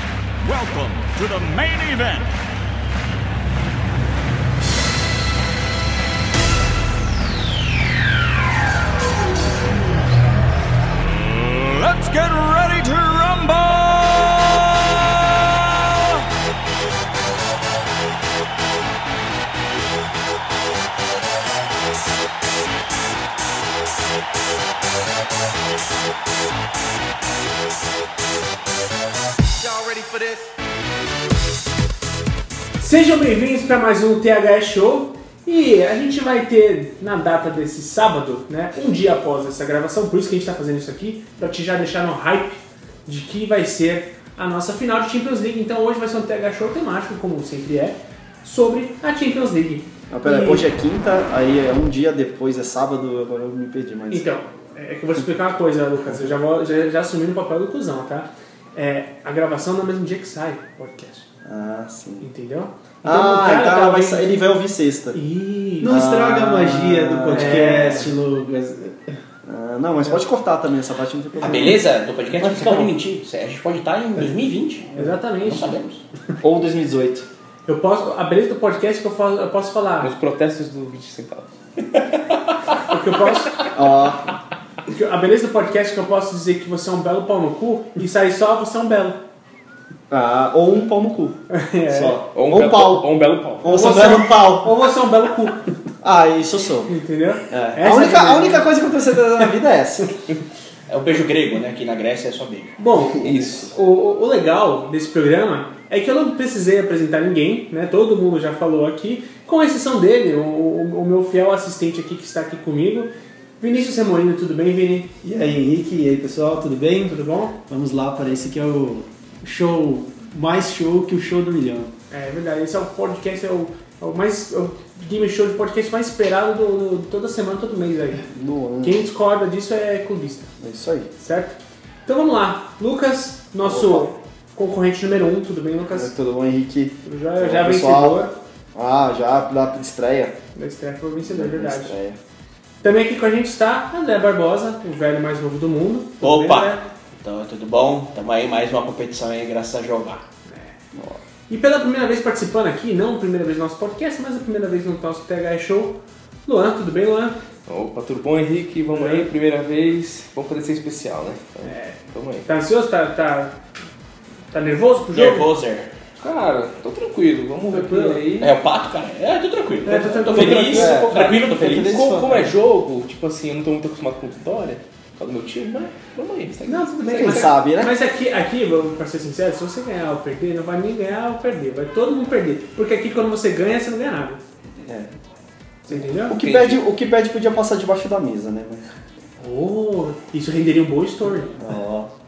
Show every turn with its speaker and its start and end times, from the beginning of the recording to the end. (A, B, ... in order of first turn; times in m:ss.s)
0:00.4-0:02.4 A
0:11.0-0:16.2 A
0:32.8-0:50.6 B
0:50.1-0:54.3 C
0:54.1-1:01.2 B
1:01.4-1:02.3 C
1:02.2-1:04.4 B
1:03.0-1:05.2 C
1:05.1-1:06.0 B
1:05.8-1:09.1 D
1:05.8-1:08.1 C
1:07.3-1:08.1 B
1:09.4-1:11.8 C
1:11.4-1:16.0 E
1:12.4-1:12.9 C
1:15.0-1:15.8 B
1:16.4-1:17.3 C
1:17.6-1:20.1 B
1:20.0-1:21.5 F
1:22.9-1:23.6 B
1:23.7-1:24.3 C
1:24.9-1:29.2 B
1:30.1-1:31.4 C
1:31.5-1:32.2 B
1:31.9-1:33.1 C
1:32.3-1:33.9 F
1:33.6-1:34.9 C
1:33.6-1:35.6 B
1:36.0-1:37.0 C
1:36.9-1:38.7 B
1:37.5-1:40.1 C
1:40.9-1:42.8 E
1:42.8-1:55.1 B
1:43.2-1:43.7 F
1:55.2-1:57.2 D
1:57.0-1:57.6 B
1:57.7-2:01.9 D
2:02.1-2:08.2 B
2:08.3-2:09.0 C
2:08.8-2:10.5 B
2:10.6-2:11.1 C
2:11.2-2:16.1 B
2:13.6-2:14.1 C
2:15.9-2:18.2 C
2:17.0-2:18.3 B
2:18.7-2:20.4 C
2:20.5-2:22.0 B
2:21.2-2:22.2 C
2:22.8-2:26.8 B
2:26.2-2:30.2 E
2:30.4-2:30.8 B
2:30.9-2:31.2 C
2:31.5-2:37.4 B
2:37.7-2:42.5 F
2:38.9-2:39.3 B
2:41.6-2:43.5 B
2:44.5-2:45.5 B
2:45.1-2:45.9 E
2:46.2-2:48.5 F
2:47.7-2:48.2 B
2:48.4-2:51.9 E
2:49.8-2:51.2 B
2:50.3-2:57.5 F
2:50.4-2:52.5 C
2:56.6-3:04.4 B
2:57.2-2:57.9 C
3:04.8-3:05.1 C
3:05.9-3:06.4 B
3:06.2-3:08.9 C
3:06.3-3:06.8 F
3:09.4-3:11.6 B
3:11.6-3:12.1 C